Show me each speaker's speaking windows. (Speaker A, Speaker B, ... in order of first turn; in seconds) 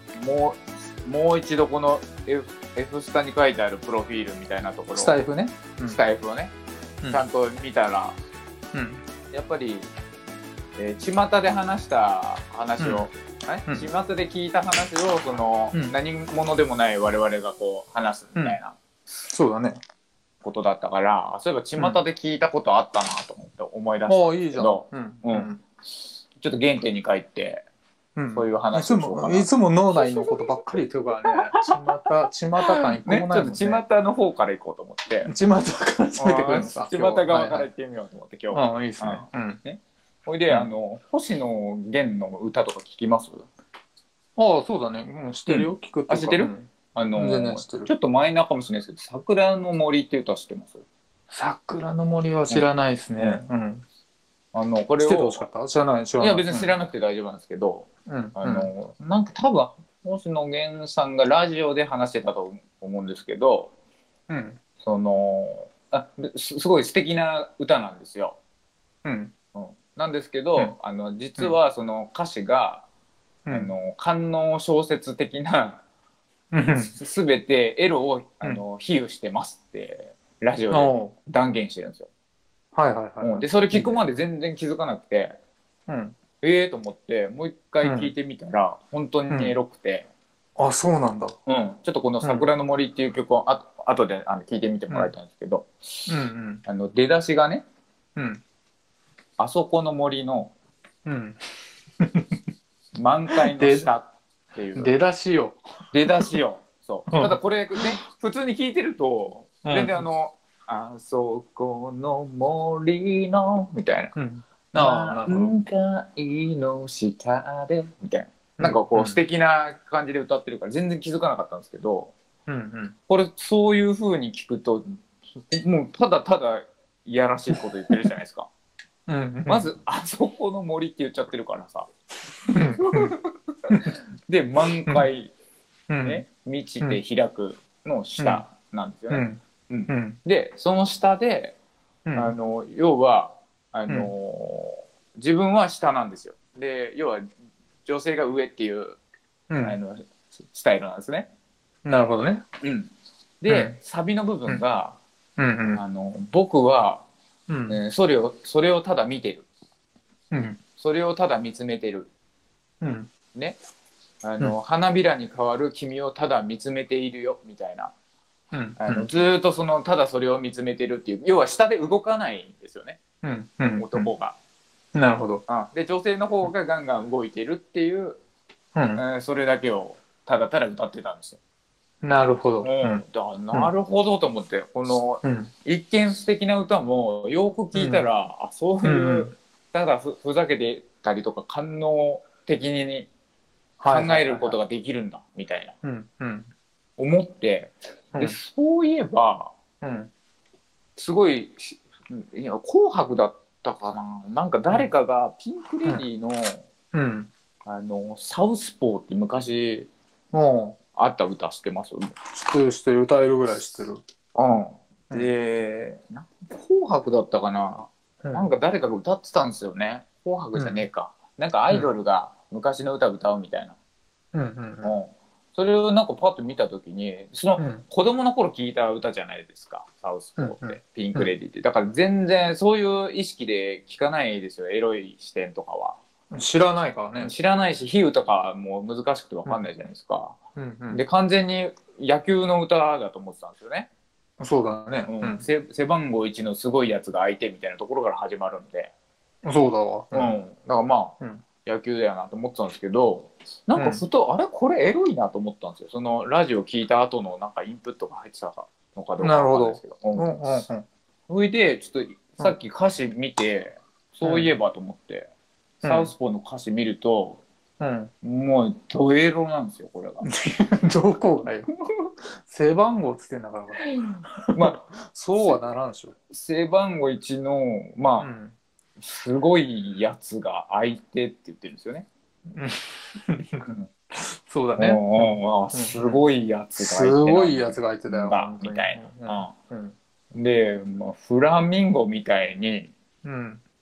Speaker A: 0.1-5.2, 5.8-6.5, 7.1-8.2, 9.3-9.9, 10.8-18.8, 20.4-25.5, 26.4-27.6, 28.3-31.8, 32.6-35.3, 36.2-43.5, 45.5-50.8, 52.5-53.4, 54.5-55.4, 56.2-63.7, 64.8-68.4, 69.5-72.9, 73.5-75.8, 76.8-82.1, 83.2-85.4, 86.4-90.1, 91.5-96.1, 96.7-97.6, 99.4-100.5, 103.0-105.0, 105.9-114.2, 114.7-122.1, 123.1-128.5, 129.5-131.9, 132.5-135.3, 136.0-141.6, 142.2-147.3, 147.9-149.0, 149.6-151.3, 152.6-155.0, 155.7-157.1, 157.7-159.5, 160.8-162.1, 164.2-167.9, 168.8-173.0, 173.8-174.4, 175.5-178.2, 179.0-181.4, 182.6-193.1, 193.9-195.8, 197.0-199.5, 201.0-206.7, 207.7-209.9, 211.0-212.2, 214.3-223.8, 224.8-236.0, 237.2-240.4, 240.9-243.9, 244.9-248.9, 250.1-260.6, 261.3-265.3, 265.8-267.4, 268.2-270.3, 273.8-274.8, 276.3-278.3, 279.0-282.1, 284.8-289.5, 290.3-292.9
Speaker B: 4.9-6.0, 8.7-9.0, 12.8-13.1, 19.2-19.8, 24.1-25.6, 28.2-33.8, 35.3-37.7, 38.5-39.6, 44.4-47.9, 51.3-53.8, 55.0-56.8, 58.1-58.7, 64.3-64.6, 69.0-69.3, 76.5-76.9, 80.7-81.1, 82.7-84.0, 85.9-86.2, 87.8-88.1, 89.3-89.6, 90.6-91.4, 92.2-92.5, 96.1-96.6, 98.2-98.4, 101.0-101.4, 102.0-102.3, 103.3-103.9, 104.8-105.6, 107.1-107.9, 109.6-110.0, 114.2-115.5, 118.6-119.2, 122.5-123.0, 129.1-129.7, 132.5-133.1, 135.9-136.2, 138.2-138.4, 139.1-140.2, 142.1-142.3, 149.5-149.8, 151.8-152.4, 153.5-153.8, 155.4-155.8, 157.5-157.8, 160.3-160.6, 162.8-163.1, 168.5-169.1, 173.2-174.1, 174.9-175.4, 178.8-179.0, 182.0-183.7, 185.2-185.5, 187.7-188.1, 188.8-189.3, 193.8-194.6, 195.8-196.5, 199.8-200.1, 206.9-207.3, 210.3-210.8, 212.3-214.0, 220.6-220.8, 224.3-224.9, 227.6-227.8, 230.4-231.3, 236.3-237.3, 240.6-241.0, 244.4-245.4, 249.4-250.4, 253.8-254.0, 259.2-260.9, 264.2-264.5, 265.8-266.1, 267.8-268.1, 270.2-271.7, 272.4-276.1, 278.2-278.6, 282.5-286.2, 286.8-289.9, 293.2-293.6